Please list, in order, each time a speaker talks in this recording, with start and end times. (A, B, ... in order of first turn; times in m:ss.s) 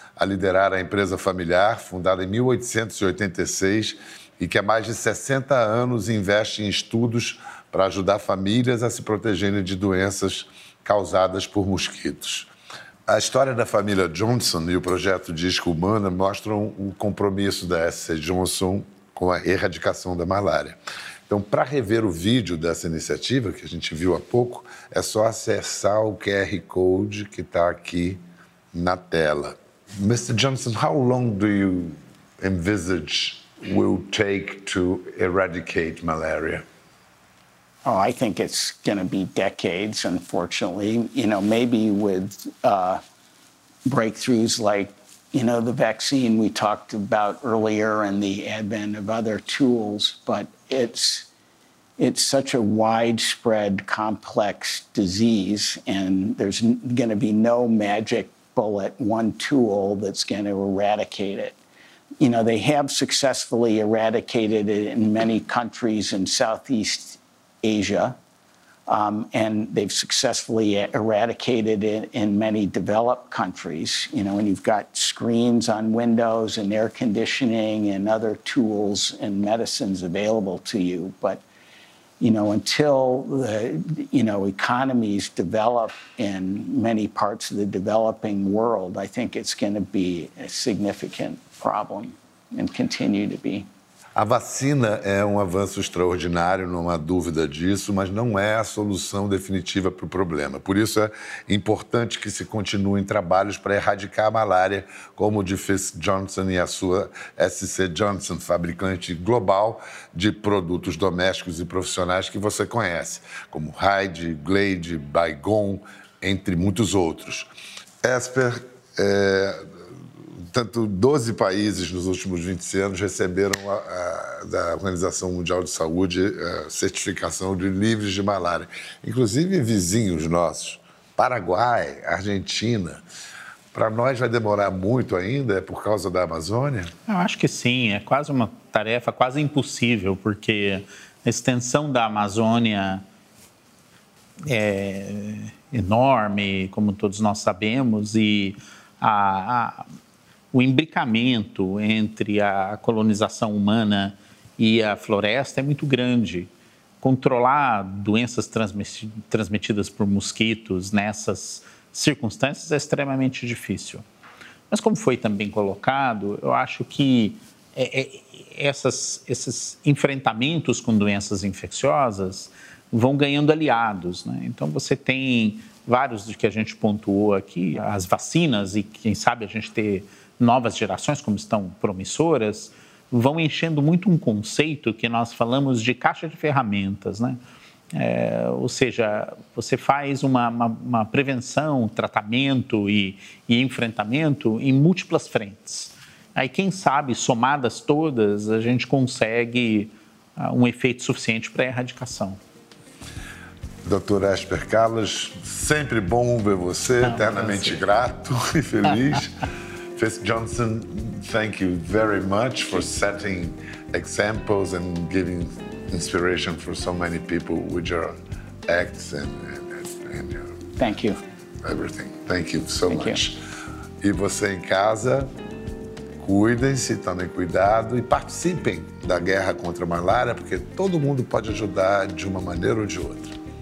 0:00.2-0:12.5 A
0:13.1-0:28.2 A
0:28.7-0:36.6 A
0:37.8-0:43.0 B
0:43.8-0:51.3 B
0:52.0-1:01.6 B
1:02.2-1:08.2 B
1:08.9-1:21.4 B
1:22.2-1:33.7 B
1:34.2-1:57.5 A
1:58.0-1:59.7 A
2:00.4-2:13.0 A
2:13.7-2:16.9 A
2:17.1-2:23.0 C
2:24.4-2:29.9 C
2:30.5-2:36.5 C
2:37.0-2:44.0 C
2:44.7-3:07.4 C
3:07.9-3:22.4 C
3:23.8-3:29.4 A
3:27.1-3:27.8 C
3:30.0-3:38.2 A
3:38.7-3:40.6 A
3:40.8-3:41.2 B
3:41.6-3:43.4 A
3:42.9-3:43.2 B
3:44.0-3:45.3 A
3:46.2-3:53.4 A